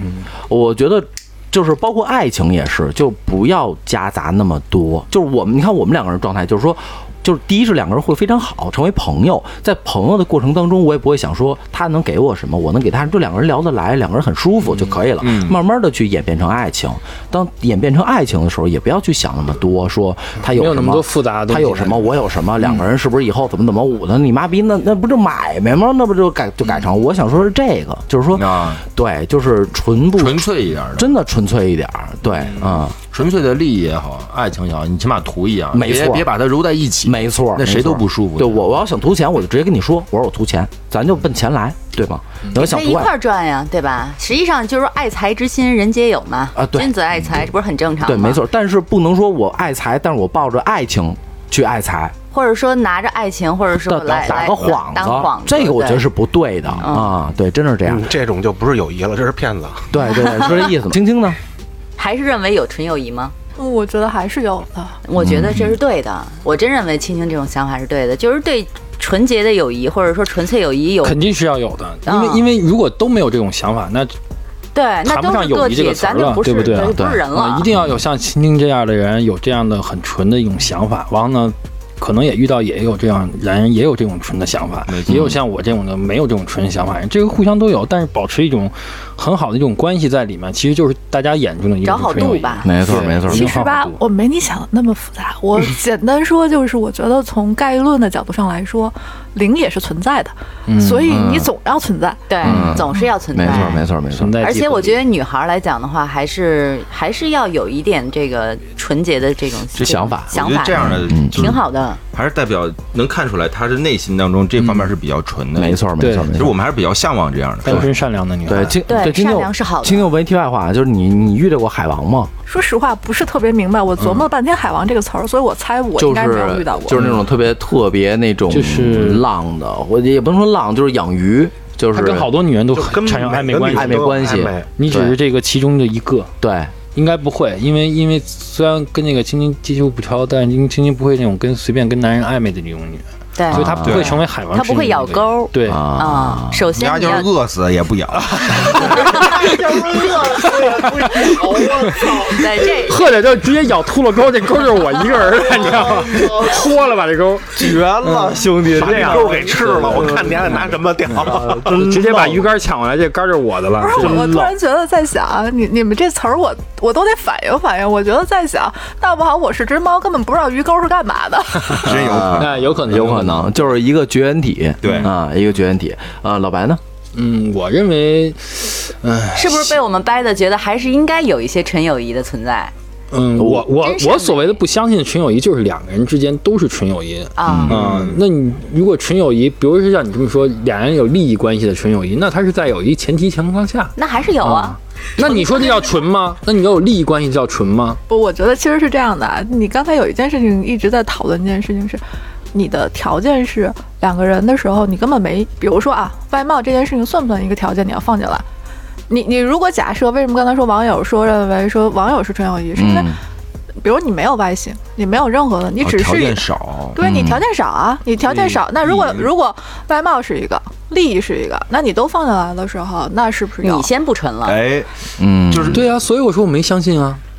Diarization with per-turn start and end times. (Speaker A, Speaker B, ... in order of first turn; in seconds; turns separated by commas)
Speaker A: 0.5-33.0, Speaker B: 15.2-15.6, Speaker C: 20.4-22.1, Speaker B: 28.3-28.8, Speaker B: 30.1-31.1, Speaker B: 33.1-38.6, Speaker A: 35.7-36.3, Speaker A: 37.0-43.1, Speaker D: 42.5-48.4, Speaker A: 46.5-46.9, Speaker A: 48.0-52.1, Speaker D: 52.3-56.0, Speaker A: 53.8-58.1, Speaker D: 56.8-57.1, Speaker E: 57.9-59.9, Speaker A: 59.9-61.4, Speaker D: 60.1-60.7, Speaker D: 62.0-63.3, Speaker F: 63.6-65.0, Speaker D: 65.0-71.2, Speaker A: 65.2-65.7, Speaker C: 71.0-74.1, Speaker D: 72.0-72.4, Speaker D: 74.7-77.7, Speaker C: 75.0-94.0, Speaker A: 76.9-77.2, Speaker B: 84.9-85.3, Speaker A: 85.1-85.3, Speaker D: 91.8-92.7, Speaker A: 92.6-93.5, Speaker F: 93.2-102.2, Speaker C: 100.7-101.1, Speaker A: 101.0-101.5, Speaker D: 102.3-103.8, Speaker C: 102.4-102.8, Speaker A: 102.4-104.3, Speaker C: 103.5-105.0, Speaker D: 104.4-110.8, Speaker B: 109.8-117.9, Speaker A: 109.8-111.6, Speaker D: 111.3-112.0, Speaker A: 115.5-116.5, Speaker C: 116.0-116.4, Speaker C: 117.6-118.8, Speaker A: 118.5-122.3, Speaker D: 118.9-120.1, Speaker F: 122.5-127.0, Speaker A: 126.0-132.3, Speaker C: 126.9-127.2, Speaker C: 128.5-129.2, Speaker C: 131.9-136.3, Speaker E: 132.7-134.7, Speaker A: 133.7-135.2, Speaker A: 136.4-136.7, Speaker C: 136.9-145.9, Speaker D: 143.3-147.3, Speaker A: 143.5-144.1, Speaker B: 143.8-144.2, Speaker A: 145.7-146.6, Speaker B: 146.7-148.8, Speaker C: 148.3-164.5, Speaker D: 148.7-149.4, Speaker E: 149.2-152.3, Speaker D: 152.2-153.0, Speaker E: 155.7-156.3, Speaker E: 157.6-162.4, Speaker B: 157.8-159.2, Speaker A: 158.9-159.2, Speaker F: 163.8-171.8, Speaker B: 171.7-172.7, Speaker A: 171.8-176.8, Speaker C: 172.4-173.5, Speaker B: 174.8-175.1, Speaker C: 177.1-179.8, Speaker D: 179.3-182.7, Speaker C: 183.1-198.0, Speaker A: 183.4-183.7, Speaker D: 183.8-184.6, Speaker D: 187.3-187.9, Speaker A: 187.4-187.9, Speaker D: 193.9-195.4, Speaker F: 195.2-195.8, Speaker F: 198.1-202.0, Speaker F: 202.5-208.4, Speaker F: 209.1-213.2, Speaker A: 212.8-213.2, Speaker F: 213.8-223.9, Speaker B: 215.8-217.1, Speaker A: 217.0-217.4, Speaker B: 218.2-219.3, Speaker D: 223.6-224.6, Speaker B: 224.4-225.9, Speaker A: 225.2-225.8, Speaker C: 225.7-227.2